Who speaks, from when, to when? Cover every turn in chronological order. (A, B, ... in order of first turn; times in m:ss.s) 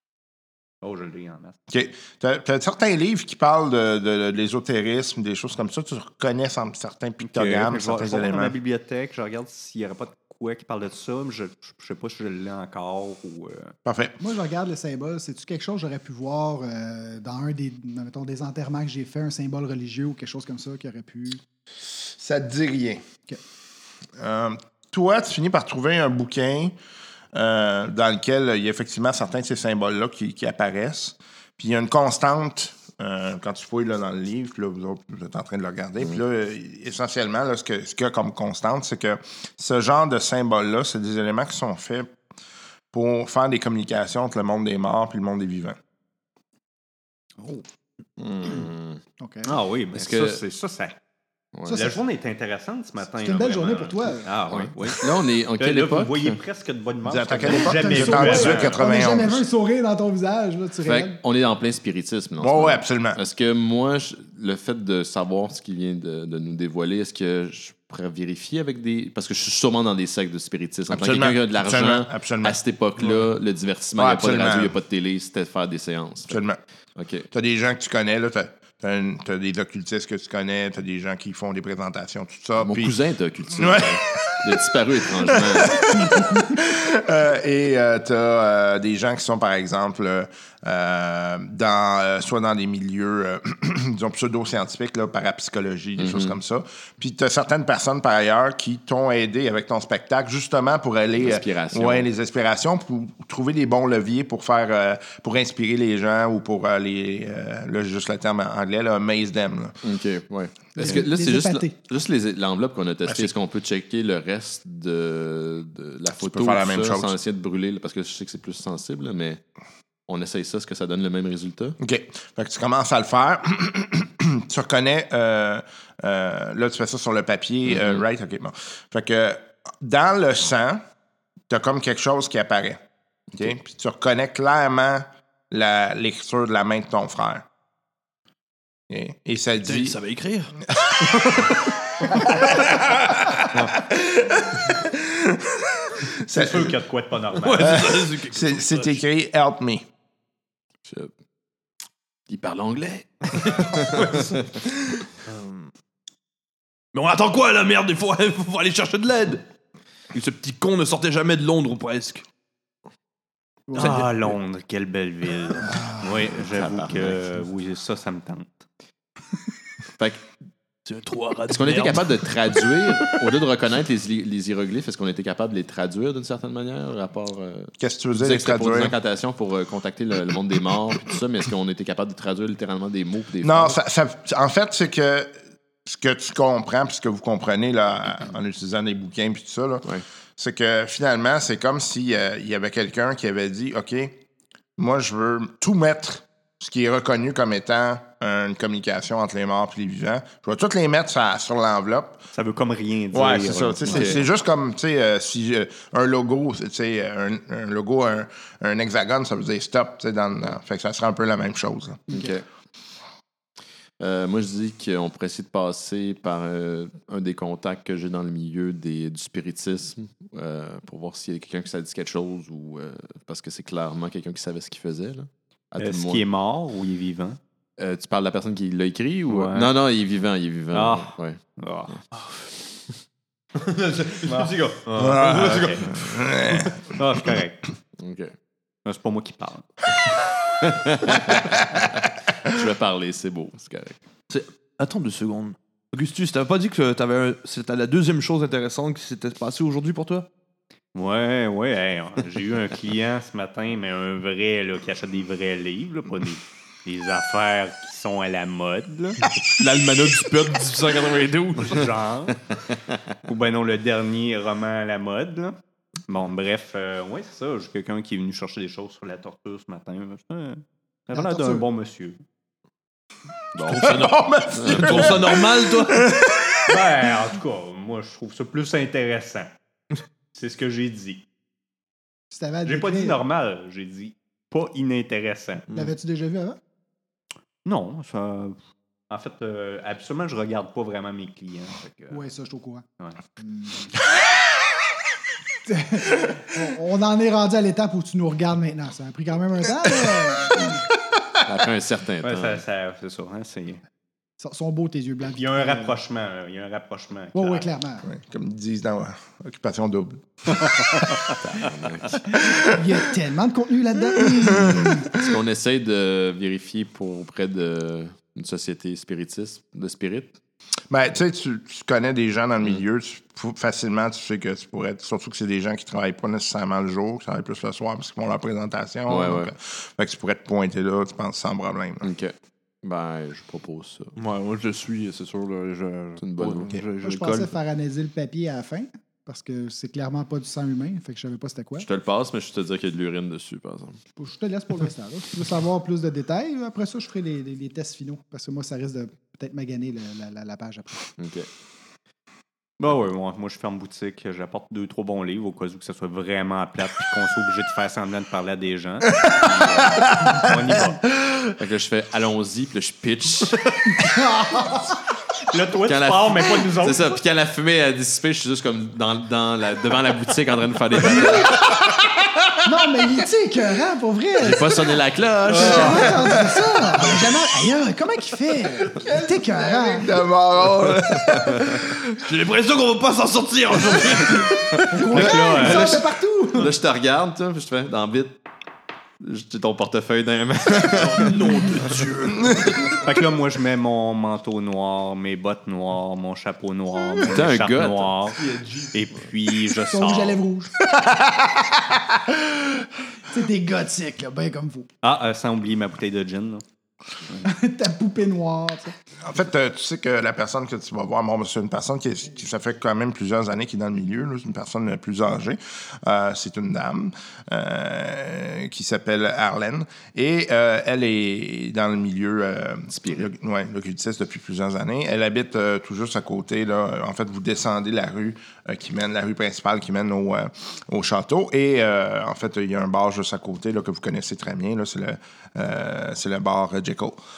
0:00.8-0:01.6 A
0:01.7-0:08.5 B
0:07.2-0:13.8 A
0:13.8-0:14.2 B
0:14.2-0:21.4 C
0:21.8-0:23.0 B
0:24.2-0:26.7 B
0:27.3-0:42.1 B
0:42.9-0:45.8 B
0:47.4-0:47.6 C
0:48.2-0:49.0 D
0:49.2-0:49.6 C
0:49.4-0:51.0 A
0:49.9-0:50.4 D
0:51.5-0:51.9 D
0:51.6-0:52.0 C
0:51.7-0:58.8 A
0:53.2-0:54.3 C
0:54.5-0:56.4 D
0:57.0-0:59.4 B
0:57.5-1:01.2 C
1:00.8-1:16.4 D
1:02.4-1:03.2 B
1:10.9-1:12.6 B
1:13.0-1:13.3 E
1:14.0-1:14.8 B
1:16.3-1:16.6 B
1:17.0-1:17.3 D
1:17.3-1:23.0 B
1:22.6-1:26.0 D
1:23.5-1:49.8 B
1:36.0-1:36.4 D
1:41.2-1:42.1 D
1:49.8-1:59.4 D
1:50.8-1:51.7 C
1:53.0-1:53.3 B
1:56.2-1:57.2 B
2:00.1-2:01.8 D
2:01.8-2:10.8 B
2:07.6-2:08.0 D
2:11.5-2:12.8 B
2:13.3-2:17.4 B
2:18.9-2:20.0 B
2:19.6-2:20.6 E
2:20.7-2:26.8 B
2:21.1-2:21.5 E
2:26.2-2:27.9 A
2:27.4-2:29.0 E
2:27.6-2:29.8 B
2:30.8-2:31.1 D
2:32.3-2:34.4 D
2:33.5-2:34.4 E
2:35.2-2:35.7 E
2:36.9-2:39.4 E
2:40.1-2:42.2 E
2:43.7-2:44.0 C
2:43.7-2:44.3 E
2:43.7-2:48.6 A
2:46.3-2:47.2 D
2:50.0-2:50.2 D
2:50.8-2:53.1 E
2:51.5-3:03.8 D
2:57.8-2:58.9 B
3:03.4-3:14.2 B
3:14.8-3:22.2 B
3:22.3-3:24.2 A
3:23.1-3:32.1 B
3:23.9-3:24.2 D
3:32.1-3:32.4 D
3:34.0-3:46.2 D
3:45.8-3:47.4 A
3:47.8-3:51.4 D
3:49.3-3:49.7 A
3:50.7-3:51.9 A
3:52.1-3:52.4 E
3:53.5-3:56.0 E
3:54.2-3:55.9 A
3:55.0-3:56.8 B
3:56.8-3:57.6 A
3:58.0-3:58.3 D
3:58.8-3:59.7 A
4:00.6-4:04.0 D
4:04.3-4:10.3 E
4:10.9-4:19.2 A
4:19.6-4:21.9 E
4:21.6-4:22.4 A
4:23.2-4:25.6 A
4:26.1-4:32.2 A
4:31.1-4:31.6 C
4:33.5-4:34.0 D
4:33.7-4:36.1 E
4:33.7-4:36.8 B
4:34.6-4:35.2 D
4:36.7-4:39.5 A
4:40.3-4:41.2 A
4:42.3-4:43.2 C
4:42.6-4:45.6 A
4:45.7-4:46.6 C
4:47.6-4:48.6 A
4:49.1-4:52.2 A
4:52.1-4:52.8 C
4:53.4-4:53.9 C
4:55.6-5:00.8 C
5:01.4-5:02.6 D
5:02.2-5:03.8 A
5:04.4-5:06.0 C
5:05.4-5:07.7 A
5:07.3-5:08.1 C
5:08.0-5:11.0 B
5:11.4-5:12.2 D
5:12.3-5:12.7 B
5:12.5-5:15.1 C
5:14.2-5:15.3 B
5:14.5-5:20.4 D
5:20.9-5:32.1 B
5:29.1-5:29.5 D
5:32.0-5:34.1 D
5:34.2-5:37.5 E
5:36.2-5:36.8 D
5:37.0-5:41.9 C
5:41.8-5:44.0 D
5:44.2-5:51.0 C
5:51.2-5:51.5 D
5:52.8-6:01.0 A
5:59.2-6:00.5 B
6:01.2-6:01.5 B
6:01.6-6:03.6 D
6:03.9-6:05.0 C
6:05.5-6:07.2 A
6:05.9-6:11.7 D
6:11.0-6:11.6 C
6:11.8-6:12.1 B
6:12.6-6:14.9 C
6:14.4-6:16.2 D
6:15.5-6:20.2 C
6:15.5-6:17.2 B
6:18.8-6:22.2 B
6:22.2-6:24.6 E
6:24.8-6:26.7 C
6:25.1-6:26.0 A
6:25.1-6:28.4 D
6:29.2-6:31.6 D
6:30.8-6:33.0 E
6:32.4-6:32.7 B
6:33.0-6:38.4 A
6:37.2-6:38.1 D
6:38.4-6:39.0 E
6:38.9-6:40.4 A
6:39.8-6:40.7 C
6:40.9-6:42.8 B
6:43.3-6:44.9 C
6:45.0-6:46.6 A
6:47.4-6:48.9 C
6:49.2-7:17.2 B
7:02.9-7:03.2 D